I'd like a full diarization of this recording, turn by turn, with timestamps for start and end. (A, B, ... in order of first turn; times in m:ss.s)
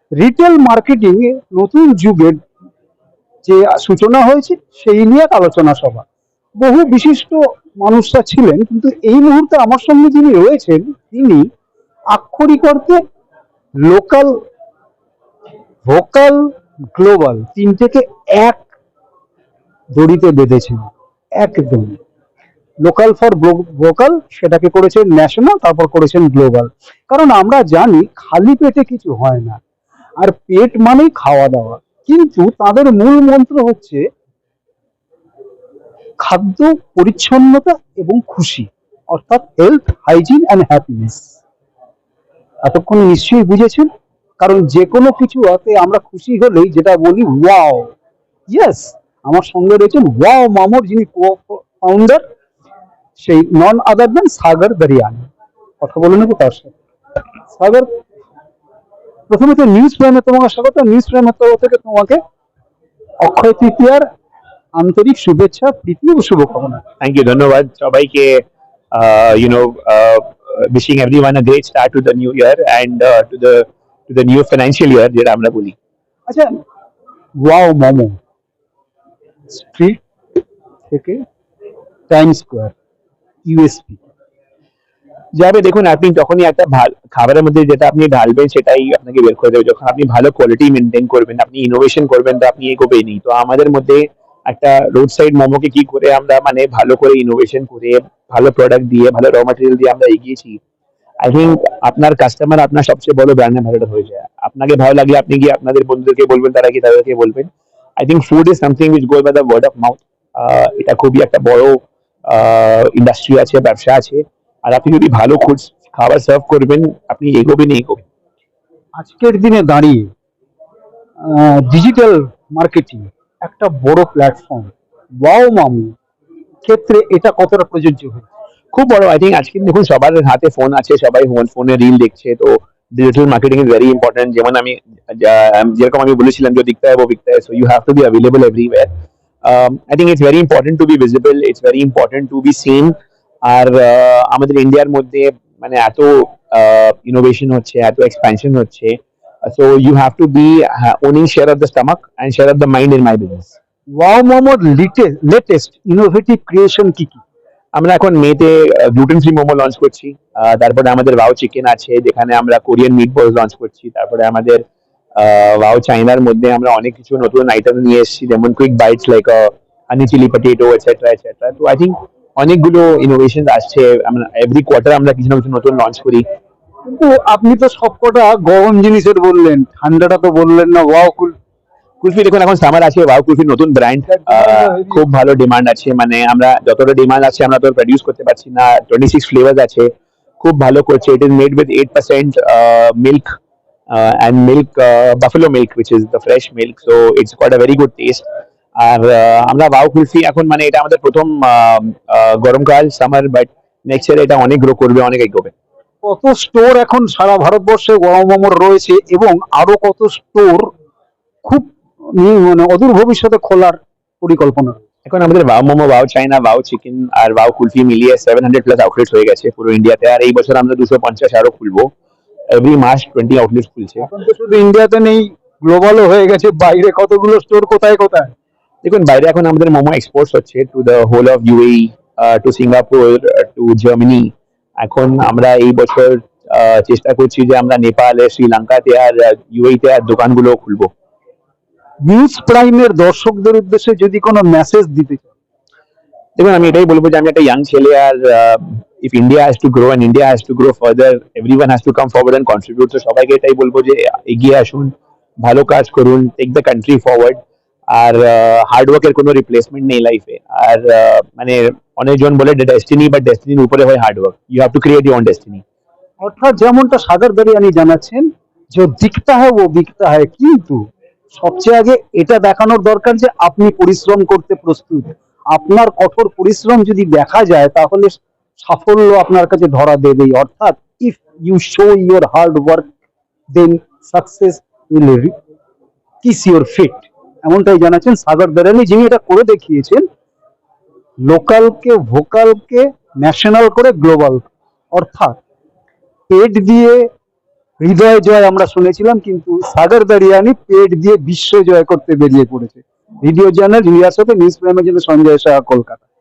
0:00.2-0:02.4 A
0:03.4-0:06.0 A
0:06.6-0:11.4 A
0:12.1-0:13.0 A
0:13.8-0:14.3 A
0:15.9-0:16.4 A
0:16.9-0:18.7 A
0:19.9-0:22.0 A
0:22.8-0:29.6 A
0:30.2-0:34.0 A
0:36.2-0:41.3 A
0:42.6-0:43.9 A
0:44.4-0:47.9 A
0:48.5-0:52.2 A
0:53.2-0:55.3 A
0:55.8-0:56.7 A
0:57.5-0:57.9 A
0:59.3-1:02.2 A
1:03.2-1:04.0 A
1:04.8-1:06.8 A
1:07.0-1:15.7 B
1:16.3-1:16.5 A
1:17.4-1:18.2 A
1:19.5-1:20.0 A
1:20.9-1:21.2 A
1:22.1-1:22.7 A
1:23.4-1:24.0 A
1:25.4-1:40.6 B
1:41.2-1:58.0 B
1:59.0-2:00.1 A
2:01.2-2:04.7 A
2:05.2-2:06.0 A
2:06.6-2:08.2 A
2:08.7-2:18.9 B
2:19.4-2:33.5 B
2:34.0-2:37.2 A
2:37.7-2:44.6 B
2:45.2-2:56.2 B
2:56.8-3:01.4 A
3:02.0-3:09.9 B
3:04.3-3:05.0 A
3:10.4-3:13.3 B
3:13.9-3:18.2 B
3:18.8-3:25.5 B
3:26.0-3:30.7 A
3:31.4-3:34.8 A
3:35.0-3:41.9 B
3:42.5-3:44.0 B
3:44.0-3:48.3 A
3:48.8-4:00.9 B
4:02.0-4:05.3 A
4:06.4-4:14.9 B
4:15.4-4:17.4 B
4:17.9-4:25.6 B
4:26.2-4:42.9 A
4:43.5-4:45.3 A
4:46.2-4:50.0 A
4:51.3-4:55.4 A
4:56.3-4:57.0 A
4:57.8-5:06.0 A